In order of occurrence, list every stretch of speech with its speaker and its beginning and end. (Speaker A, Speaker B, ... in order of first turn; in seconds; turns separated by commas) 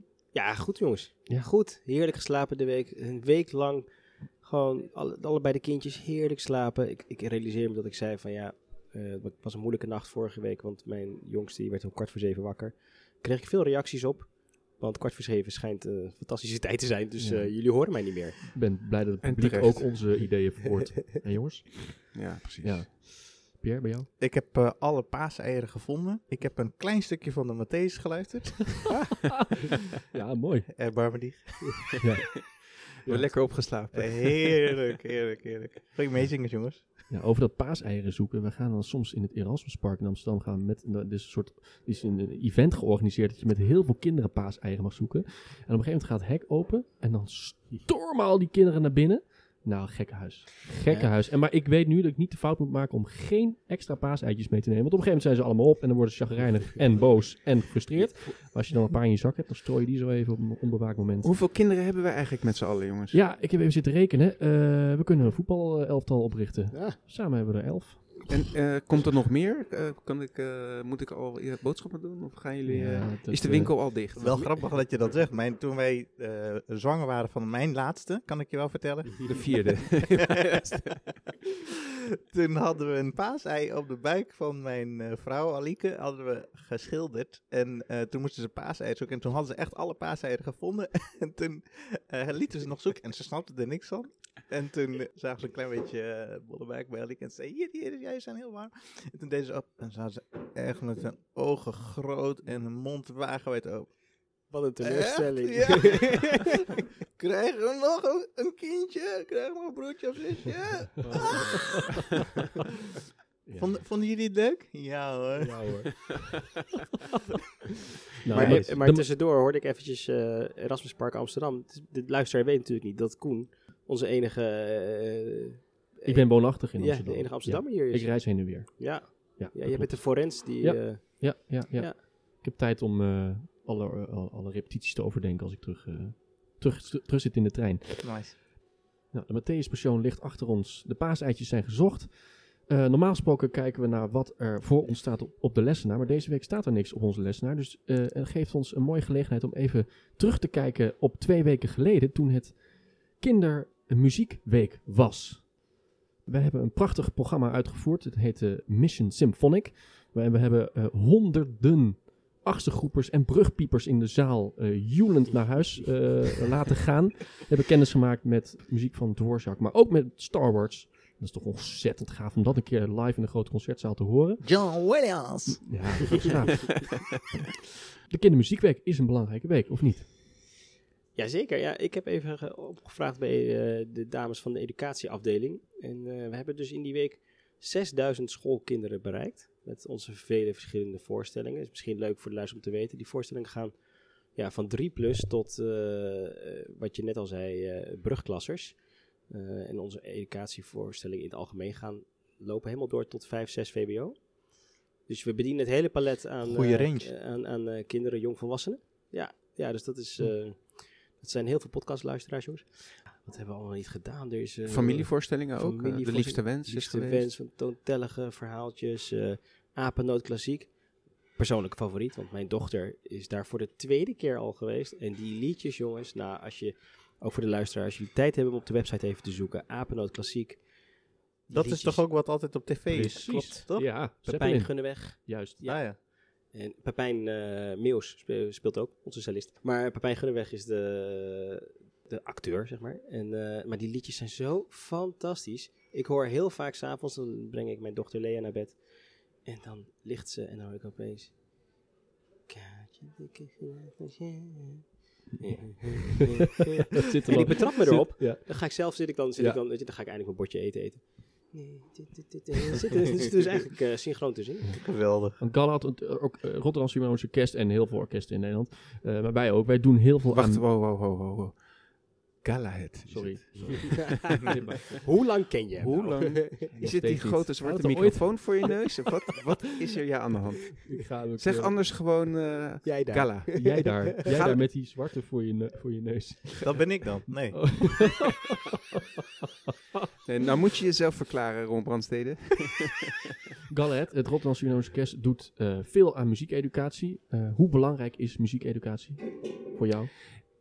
Speaker A: 0.3-18.5, Speaker B: 17.2-24.1, Speaker C: 19.2-20.2, Speaker C: 22.1-22.9, Speaker D: 24.2-29.1, Speaker B: 30.1-31.1, Speaker D: 30.8-32.0, Speaker B: 32.0-33.5, Speaker C: 33.0-34.8, Speaker D: 33.9-37.1, Speaker B: 37.1-61.3, Speaker A: 50.9-51.2, Speaker A: 57.9-58.7, Speaker C: 61.2-63.2, Speaker B: 63.1-68.3, Speaker A: 66.7-67.0, Speaker C: 68.3-74.7, Speaker B: 72.7-73.8, Speaker D: 74.1-79.7, Speaker C: 79.2-81.1, Speaker D: 80.6-80.9, Speaker D: 82.3-106.5, Speaker A: 104.5-106.6, Speaker D: 107.1-111.9, Speaker B: 111.0-111.6, Speaker B: 113.4-113.8, Speaker D: 113.5-116.1, Speaker B: 115.4-116.0, Speaker B: 118.2-119.1, Speaker A: 118.3-132.0, Speaker D: 118.3-118.7, Speaker B: 126.0-138.4, Speaker D: 138.0-138.3, Speaker B: 139.1-155.6, Speaker B: 156.2-174.7, Speaker A: 165.8-166.0, Speaker D: 174.4-176.0, Speaker B: 175.6-177.0, Speaker B: 178.1-180.1, Speaker A: 181.1-204.6, Speaker A: 205.1-230.9, Speaker D: 206.4-207.1, Speaker C: 214.7-217.3, Speaker A: 231.5-232.1, Speaker D: 231.5-233.9, Speaker B: 232.9-235.6, Speaker A: 233.2-251.4, Speaker D: 235.6-236.0, Speaker A: 252.5-264.8, Speaker B: 255.4-259.6, Speaker D: 264.8-265.4, Speaker B: 265.3-270.6, Speaker C: 270.3-271.7, Speaker C: 272.3-274.3, Speaker B: 273.1-275.0, Speaker A: 274.9-276.7, Speaker C: 275.8-284.6, Speaker B: 276.8-278.8, Speaker B: 280.9-281.7, Speaker A: 282.8-284.1, Speaker B: 283.5-288.4, Speaker D: 286.6-288.1, Speaker C: 290.2-293.2, Speaker B: 293.7-300.1